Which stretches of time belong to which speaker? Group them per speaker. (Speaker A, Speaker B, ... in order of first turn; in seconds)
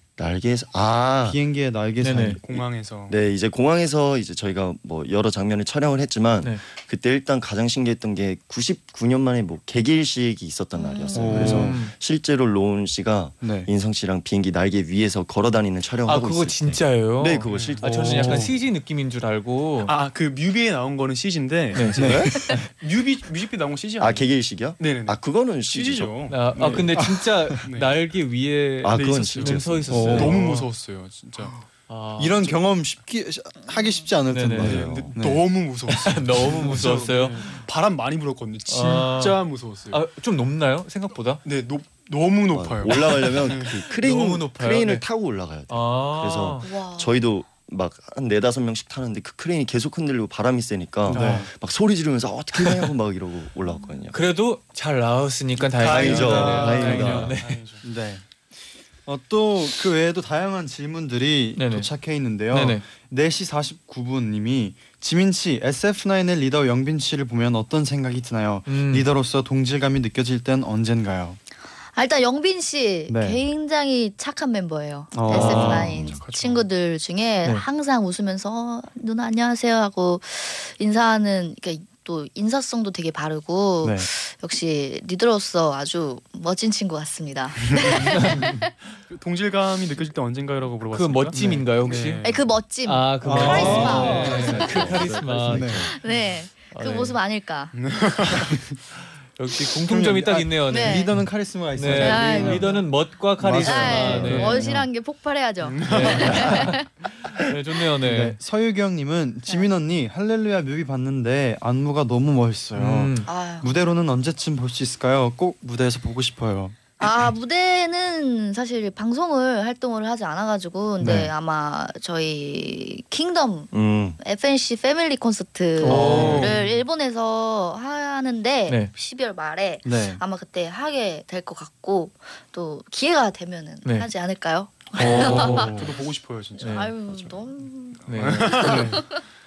Speaker A: 0.2-1.4, 2.5-18.5, 21.9-22.3, 24.0-26.8, 28.8-30.4, 34.6-35.1, 42.5-54.2, 55.8-57.4, 95.3-95.8, 123.7-124.2
Speaker B: 1.2-2.4, 11.1-11.8, 13.4-13.7, 17.8-18.5, 22.0-22.7, 26.9-27.6, 29.9-30.4, 32.2-35.5, 36.5-36.9, 51.1-51.5, 55.9-56.7, 57.8-58.2, 59.0-71.4, 73.1-73.4, 75.1-75.9, 83.8-84.1, 91.3-92.0, 93.2-95.9, 99.8-104.8, 108.0-116.8, 121.0-121.3, 125.8-126.6, 129.8-130.2, 135.0-135.9, 138.6-139.0
Speaker C: 2.0-2.4, 11.3-11.9, 16.1-19.9, 21.7-22.2, 26.3-30.6, 31.9-32.5, 34.3-34.9, 35.9-37.4, 38.7-39.4, 39.9-41.4, 44.0-45.0, 45.7-46.7, 51.1-51.4, 52.6-52.9, 54.1-57.6, 61.5-61.9, 62.5-62.8, 68.7-69.1, 75.3-75.9, 90.9-92.2, 92.8-96.0, 96.6-97.2, 99.4-104.8, 105.8-108.4, 112.7-113.3, 125.8-126.5, 135.0-135.8, 136.6-136.9, 138.1-138.8
Speaker D: 2.4-3.2, 17.5-17.9, 19.8-26.9, 27.6-28.0, 28.9-31.6, 34.6-40.0, 41.4-43.8, 55.8-57.8, 75.7-76.7, 87.8-88.2, 89.1-92.5, 93.4-95.0, 97.7-98.6, 105.6-106.6, 126.3-126.8, 135.0-137.4, 138.0-139.0
Speaker E: 10.7-11.5, 33.7-34.0, 46.6-47.3, 71.9-88.7, 92.2-95.2, 95.8-97.7, 100.7-101.1, 101.9-102.9, 103.6-106.8, 113.2-113.8, 117.0-135.8, 136.6-139.2